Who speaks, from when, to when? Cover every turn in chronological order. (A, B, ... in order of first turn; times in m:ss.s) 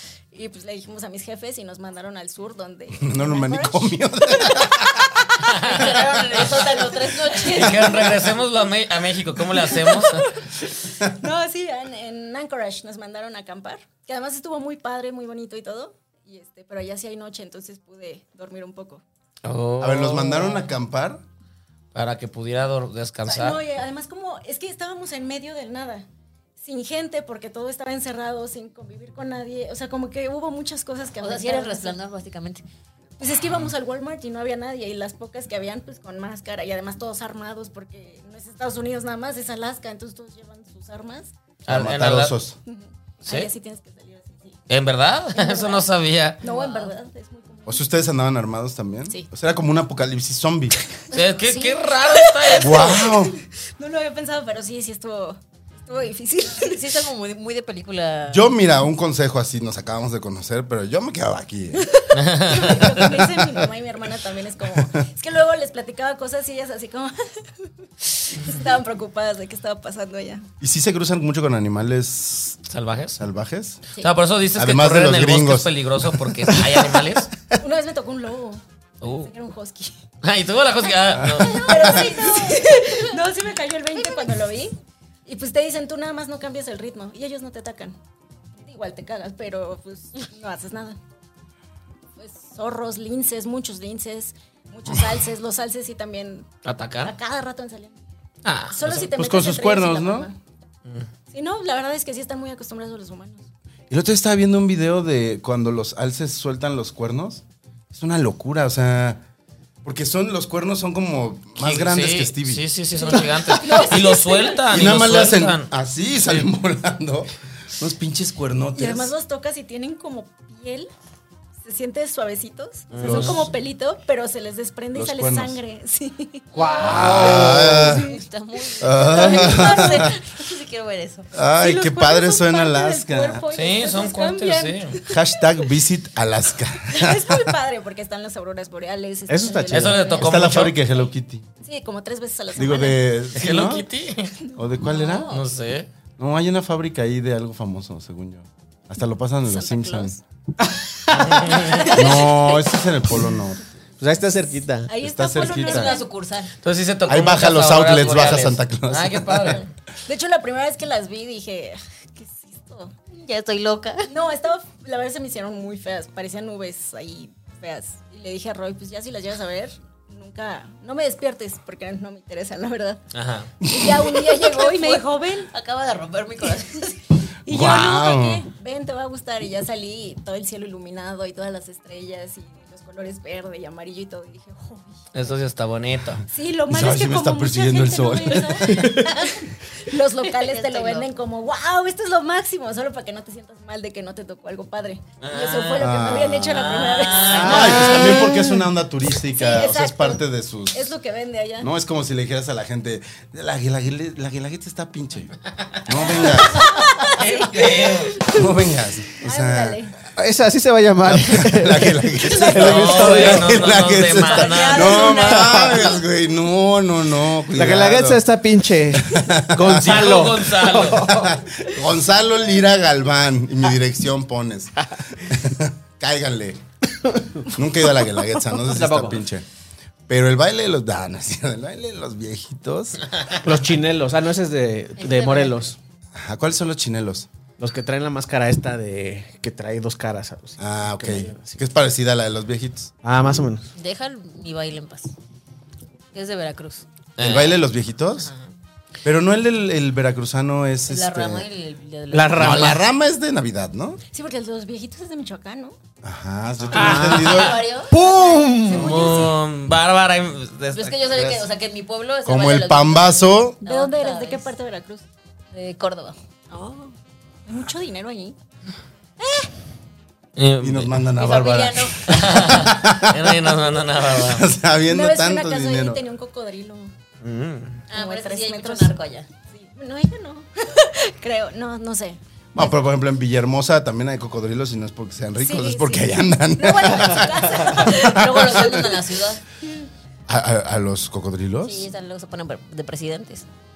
0:00.3-0:07.6 A
0:03.0-0:05.1 B
0:05.5-0:05.9 C
0:05.6-0:07.9 D
0:07.4-0:10.3 C
0:09.5-0:19.0 A
0:19.4-0:20.7 C
0:19.8-0:21.2 B
0:21.9-0:23.6 C
0:23.3-0:26.0 A
0:26.6-0:32.0 A
0:31.2-0:32.6 D
0:33.2-0:41.3 A
0:41.6-0:42.3 C
0:41.7-0:42.6 B
0:42.7-0:44.6 A
0:43.2-0:43.5 C
0:44.7-0:46.4 C
0:45.3-0:45.9 A
0:46.4-0:47.8 A
0:46.4-0:46.9 D
0:47.6-0:50.8 B
0:51.0-0:56.9 A
0:51.1-0:53.1 C
0:52.5-0:53.4 B
0:56.6-0:58.5 D
0:58.3-1:01.9 B
1:01.8-1:10.5 A
1:02.1-1:03.2 C
1:02.9-1:03.6 B
1:04.7-1:05.0 B
1:10.6-1:12.6 B
1:12.7-1:13.2 C
1:13.2-1:13.8 B
1:14.0-1:17.3 C
1:14.5-1:17.0 B
1:17.6-1:20.0 A
1:19.0-1:19.3 C
1:20.2-1:22.1 C
1:21.1-1:22.3 B
1:21.4-1:28.0 A
1:21.9-1:23.1 D
1:28.6-1:31.0 A
1:32.2-1:36.5 A
1:36.6-1:37.1 C
1:37.0-1:38.0 A
1:38.4-1:39.0 C
1:38.7-1:40.4 A
1:38.9-1:40.3 B
1:41.3-1:43.4 A
1:43.9-1:49.2 B
1:49.8-1:52.6 B
1:51.6-1:55.7 C
1:53.0-1:54.6 A
1:54.7-1:59.1 B
1:58.8-2:00.9 A
2:01.6-2:10.4 A
2:02.9-2:03.5 C
2:03.0-2:03.5 B
2:04.9-2:05.6 B
2:06.5-2:11.3 D
2:06.8-2:08.0 E
2:06.8-2:08.1 B
2:08.8-2:10.1 B
2:11.3-2:13.4 B
2:11.6-2:15.5 A
2:13.5-2:15.0 C
2:15.1-2:17.5 B
2:16.9-2:20.4 A
2:19.3-2:20.0 E
2:19.7-2:20.8 C
2:20.1-2:21.5 B
2:21.6-2:23.0 A
2:22.5-2:23.9 B
2:23.3-2:24.3 C
2:24.6-2:25.3 B
2:24.8-2:25.4 D
2:25.3-2:25.9 C
2:26.2-2:30.2 B
2:29.4-2:30.2 A
2:30.7-2:31.4 E
2:31.1-2:32.2 C
2:31.5-2:32.7 A
2:31.9-2:33.6 B
2:34.0-2:34.9 E
2:34.9-2:36.1 A
2:35.0-2:36.0 B
2:35.4-2:36.5 D
2:36.6-2:39.7 C
2:37.0-2:39.6 B
2:40.0-2:42.9 A
2:43.1-2:44.1 D
2:44.1-2:53.0 A
2:53.1-2:53.5 C
2:53.6-2:54.3 B
2:53.7-2:55.5 A
2:54.4-2:57.0 D
2:57.4-3:05.0 A
2:57.5-2:58.4 B
3:05.1-3:06.2 C
3:06.3-3:18.4 A
3:06.7-3:09.1 B
3:10.2-3:11.1 D
3:15.2-3:16.0 C
3:15.8-3:20.9 B
3:16.5-3:18.2 D
3:16.6-3:17.4 C
3:17.3-3:18.5 E
3:19.2-3:21.7 A
3:21.6-3:26.8 B
3:26.1-3:28.5 A
3:27.0-3:28.2 C
3:28.3-3:29.8 B
3:29.2-3:30.0 A
3:30.2-3:33.6 E
3:31.0-3:38.2 B
3:32.5-3:35.2 C
3:34.2-3:36.0 A
3:34.6-3:35.1 D
3:35.2-3:35.8 E
3:37.5-3:41.4 E
3:38.9-3:46.6 B
3:39.7-3:41.2 C
3:47.1-3:47.5 E
3:47.4-3:49.4 B
3:48.5-3:49.2 E
3:50.1-3:53.0 B
3:53.4-3:55.8 E
3:55.0-3:55.7 D
3:56.1-3:57.3 B
3:57.6-4:01.6 E
4:00.6-4:02.9 B
4:03.0-4:03.6 E
4:03.7-4:05.1 D
4:06.1-4:06.8 D
4:07.2-4:07.6 C
4:07.2-4:08.3 B
4:08.2-4:08.5 D
4:09.0-4:11.4 B
4:10.9-4:12.7 D
4:12.1-4:12.8 E
4:12.4-4:14.0 B
4:14.1-4:15.8 A
4:16.0-4:17.6 B
4:16.7-4:17.6 C
4:16.7-4:18.2 D
4:16.7-4:17.3 E
4:17.9-4:19.0 E
4:17.9-4:19.4 A
4:18.7-4:21.2 C
4:20.7-4:24.5 D
4:21.1-4:21.4 B
4:22.2-4:23.6 B
4:23.6-4:25.0 A
4:25.5-4:26.9 D
4:27.5-4:28.4 A
4:29.2-4:29.5 A
4:30.4-4:31.0 C
4:30.6-4:36.0 B
4:31.2-4:32.5 D
4:32.0-4:34.5 C
4:34.9-4:36.9 A
4:37.2-4:37.8 C
4:37.9-4:39.3 D
4:37.9-4:39.0 A
4:39.5-4:42.2 A
4:42.5-4:48.8 B
4:45.4-4:48.9 A
4:47.8-4:49.4 D
4:50.3-4:51.9 B
4:51.6-4:53.4 D